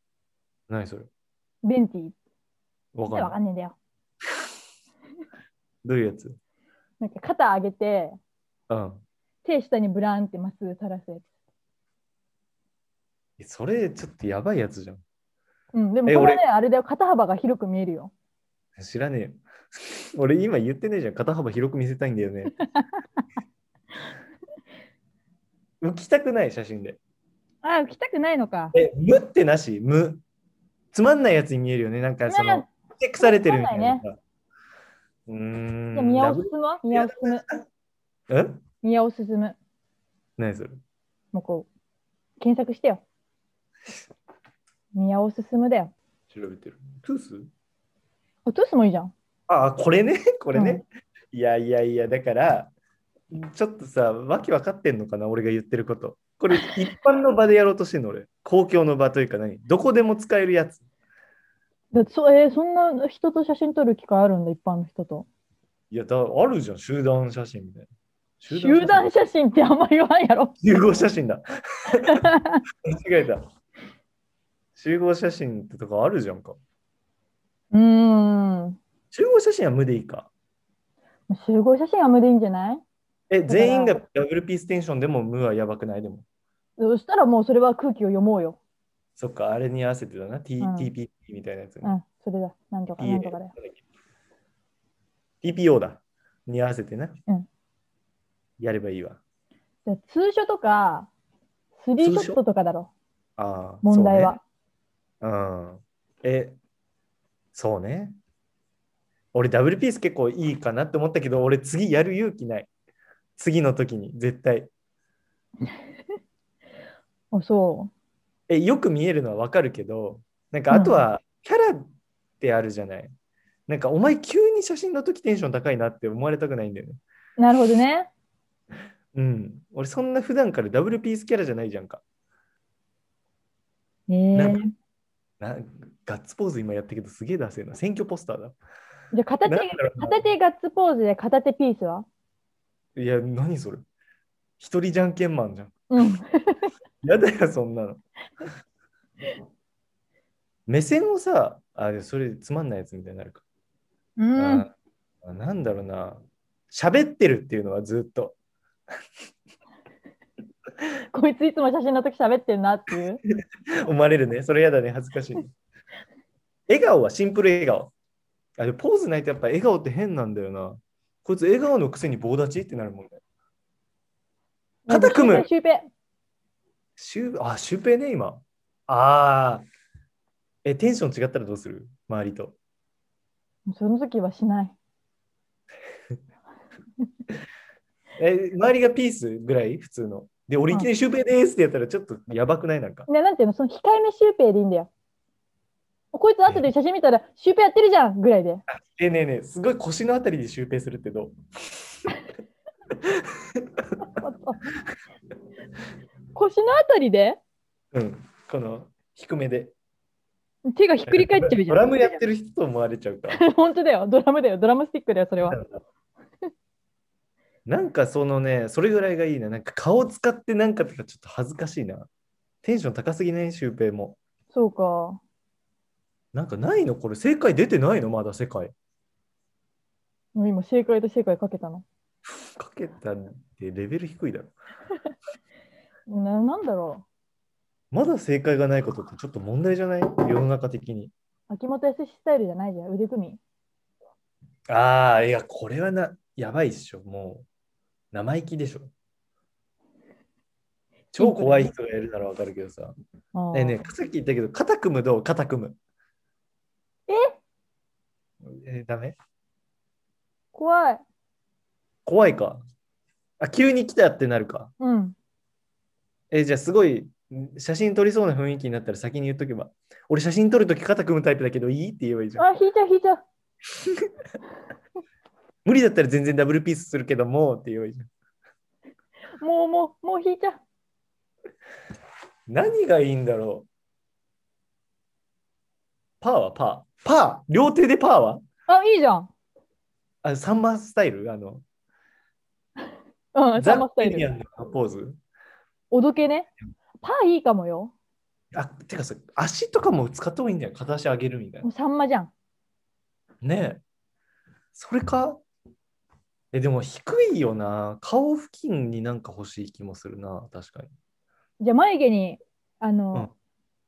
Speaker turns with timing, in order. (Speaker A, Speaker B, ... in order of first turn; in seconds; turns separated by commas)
Speaker A: 0.7-1.1, Speaker B: 1.6-2.1, Speaker A: 3.0-3.4, Speaker B: 3.1-3.8, Speaker A: 5.8-6.4, Speaker B: 7.0-8.2, Speaker A: 8.7-9.0, Speaker B: 9.4-11.2, Speaker A: 13.4-15.0, Speaker B: 15.7-18.1, Speaker A: 16.1-16.4, Speaker A: 18.8-22.6, Speaker A: 25.8-27.0, Speaker B: 27.6-28.7, Speaker A: 28.7-30.2, Speaker A: 30.9-34.2, Speaker B: 32.3-32.7, Speaker B: 33.2-34.0, Speaker A: 35.3-37.6, Speaker B: 36.0-37.5, Speaker A: 38.3-38.6, Speaker B: 38.8-39.6, Speaker A: 40.4-40.8, Speaker B: 41.3-41.7, Speaker B: 42.4-43.0, Speaker B: 45.0-45.9, Speaker A: 46.3-47.5, Speaker B: 48.5-49.1, Speaker A: 49.5-52.7, Speaker B: 50.5-50.8, Speaker A: 53.3-60.8, Speaker B: 61.9-65.3, Speaker A: 65.9-67.9, Speaker A: 68.4-69.1, Speaker B: 68.5-70.5, Speaker A: 70.6-72.2, Speaker B: 72.0-72.6, Speaker A: 72.8-73.5, Speaker A: 74.8-76.6, Speaker B: 77.7-78.8, Speaker A: 79.1-80.3, Speaker B: 81.3-82.8, Speaker A: 83.3-86.2, Speaker B: 83.5-84.0, Speaker B: 86.8-88.6, Speaker A: 89.2-92.0, Speaker B: 90.6-90.9, Speaker B: 91.8-93.5, Speaker A: 93.0-93.8, Speaker A: 95.4-97.2, Speaker A: 98.6-99.2, Speaker B: 99.9-101.1, Speaker B: 101.8-102.9, Speaker A: 102.0-102.4, Speaker A: 103.4-104.3, Speaker B: 103.8-104.4, Speaker A: 105.2-106.6, Speaker A: 107.5-108.2, Speaker A: 109.3-112.7, Speaker A: 113.4-114.7, Speaker B: 117.3-117.9, Speaker A: 118.5-121.9, Speaker B: 120.7-121.0, Speaker A: 122.4-123.1, Speaker A: 123.7-127.0, Speaker B: 127.4-128.1, Speaker A: 129.1-132.0, Speaker B: 134.1-134.7, Speaker A: 134.3-134.6, Speaker A: 135.4-138.6, Speaker B: 139.1-142.1, Speaker A: 139.4-140.2, Speaker A: 143.0-143.8, Speaker A: 144.6-145.8, Speaker B: 145.9-146.7, Speaker A: 147.0-148.0, Speaker A: 150.7-153.4, Speaker B: 154.2-154.7, Speaker A: 154.4-154.7, Speaker A: 155.2-156.2, Speaker A: 156.7-158.3, Speaker B: 161.1-163.2, Speaker A: 163.8-165.5, Speaker A: 166.7-167.9, Speaker A: 168.6-173.2, Speaker B: 174.9-175.9, Speaker A: 174.9-175.5, Speaker A: 177.0-179.7, Speaker A: 180.7-182.6, Speaker B: 183.7-184.7, Speaker A: 188.2-193.1, Speaker B: 193.1-194.9, Speaker B: 196.1-198.6, Speaker A: 198.7-201.3, Speaker A: 203.0-203.7, Speaker B: 204.1-204.6, Speaker B: 206.3-207.4, Speaker A: 207.9-209.7, Speaker B: 210.7-212.2, Speaker A: 211.1-213.4, Speaker B: 213.3-215.6, Speaker A: 215.5-215.8, Speaker A: 217.7-222.1, Speaker A: 222.6-224.2, Speaker B: 224.5-225.2, Speaker A: 226.3-228.7, Speaker B: 230.3-231.8, Speaker A: 232.6-234.5, Speaker B: 236.1-237.0, Speaker A: 237.9-241.1, Speaker B: 241.5-243.4, Speaker A: 244.7-247.5, Speaker A: 248.1-248.9, Speaker A: 251.1-252.9, Speaker B: 251.2-251.7, Speaker B: 253.3-253.8, Speaker A: 253.5-255.8, Speaker B: 257.1-257.4, Speaker A: 258.4-259.2, Speaker B: 260.5-261.0, Speaker A: 262.1-262.6, Speaker A: 263.4-264.7, Speaker B: 264.8-265.1, Speaker A: 266.3-272.5, Speaker B: 272.4-273.2, Speaker A: 275.6-278.1, Speaker B: 279.4-280.6, Speaker A: 282.5-283.7, Speaker A: 286.2-288.4, Speaker B: 288.7-289.3, Speaker A: 290.2-291.6, Speaker B: 293.4-294.3, Speaker A: 293.6-295.2, Speaker B: 295.9-296.5, Speaker B: 297.0-297.9, Speaker A: 298.5-301.7, Speaker B: 301.6-302.3, Speaker A: 303.4-303.8, Speaker A: 304.7-305.4, Speaker A: 306.5-310.9, Speaker B: 311.6-313.3